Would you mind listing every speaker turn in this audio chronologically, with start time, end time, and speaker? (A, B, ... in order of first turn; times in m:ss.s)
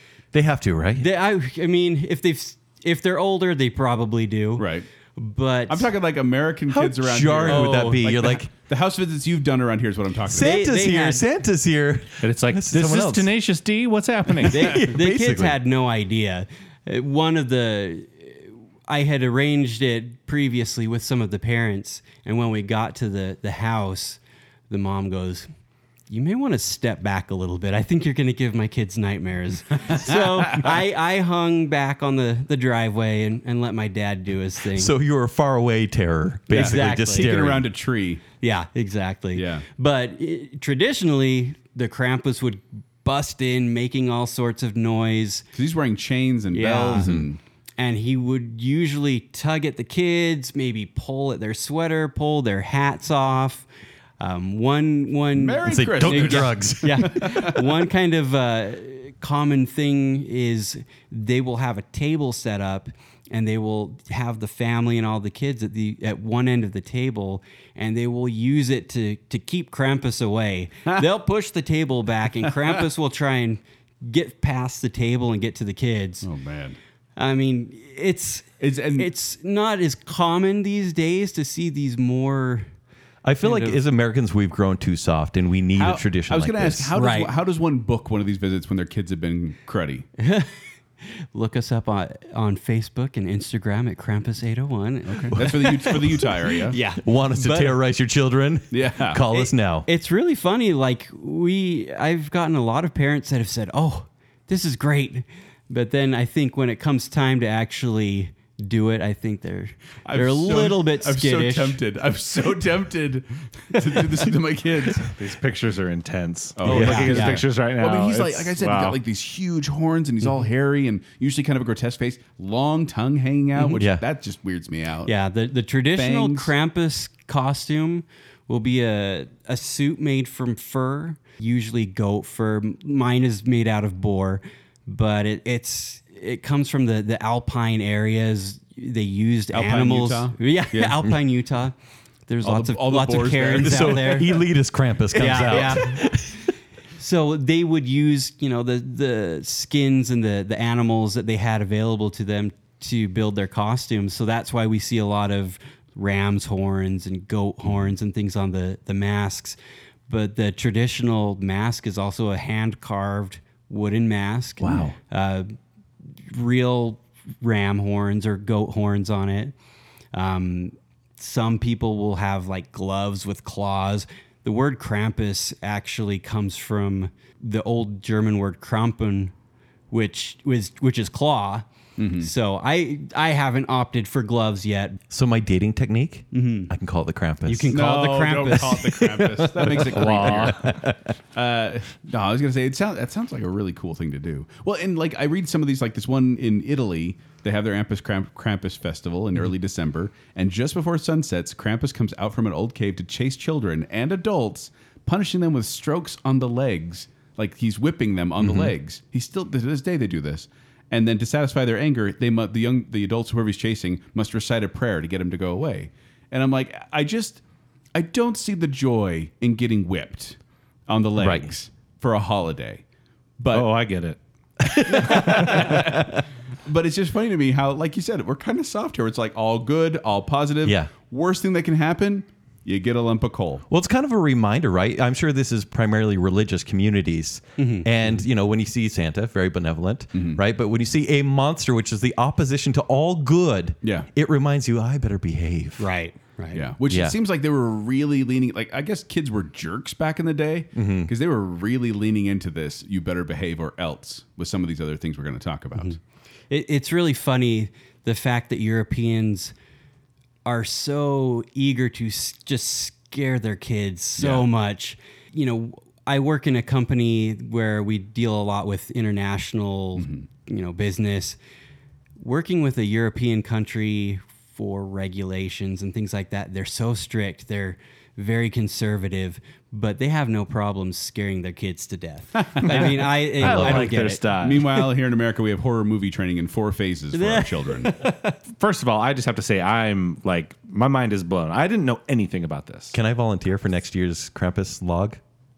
0:00.3-0:01.1 A
0:01.0-0:05.9 B
0:04.6-0:04.9 C
0:05.7-0:10.6 C
0:06.7-0:08.5 A
0:07.5-0:08.0 B
0:10.3-0:13.3 A
0:10.3-0:11.2 B
0:12.2-0:14.8 D
0:14.5-0:15.6 A
0:14.5-0:25.5 B
0:26.1-0:34.9 B
0:34.7-0:37.7 A
0:36.5-0:37.3 B
0:36.5-0:38.2 C
0:38.4-0:45.4 B
0:39.4-0:39.6 C
0:45.5-0:47.4 C
0:46.5-0:47.1 B
0:47.0-0:47.3 A
0:47.8-0:53.7 B
0:54.2-1:16.3 B
0:55.4-0:57.7 C
0:55.6-0:57.5 A
1:16.2-1:16.8 C
1:17.2-1:22.7 B
1:18.6-1:19.1 C
1:23.2-1:26.9 A
1:23.4-1:23.8 B
1:25.8-1:30.1 C
1:27.0-1:27.3 B
1:30.2-1:30.5 B
1:31.0-1:37.8 B
1:35.1-1:36.8 C
1:37.0-1:39.9 A
1:38.7-1:39.2 C
1:39.3-1:51.8 B
1:50.0-1:55.1 C
1:55.1-1:59.0 D
1:56.6-2:05.1 C
1:56.7-1:57.1 A
1:56.7-1:57.4 B
2:05.1-2:21.7 B
2:06.0-2:06.5 C
2:19.5-2:21.0 C
2:22.3-2:24.4 B
2:22.4-2:24.2 C
2:23.6-2:26.4 A
2:25.1-2:26.1 B
2:27.0-2:39.6 B
2:40.1-2:45.6 B
2:44.6-2:45.0 A
2:46.3-2:49.6 B
2:50.1-2:59.3 B
2:59.9-3:01.6 B
3:02.0-3:02.3 C
3:02.2-3:05.0 B
3:05.1-3:07.8 A
3:06.3-3:06.7 B
3:07.5-3:09.2 B
3:07.7-3:10.8 C
3:09.6-3:11.0 A
3:09.8-3:10.8 D
3:11.4-3:37.4 C
3:28.4-3:28.7 A
3:37.9-3:42.8 C
3:41.2-3:41.5 A
3:43.4-3:43.7 C
3:43.5-3:45.9 D
3:44.6-3:46.2 A
3:44.9-3:46.1 C
3:46.7-3:53.6 C
3:50.6-3:50.9 A
3:53.7-4:05.9 A
3:57.6-3:57.9 B
4:00.1-4:00.4 C
4:03.8-4:04.1 C
4:05.8-4:06.6 B
4:06.5-4:16.0 C
4:06.9-4:07.2 A
4:10.8-4:11.1 A
4:16.5-4:19.5 B
4:20.4-4:31.4 B
4:30.0-4:30.3 C
4:32.2-4:44.2 B
4:42.6-4:44.8 D
4:43.4-4:43.9 A
4:44.4-4:48.0 C
4:47.1-4:48.4 B
4:48.5-4:53.0 D
4:52.9-4:55.2 A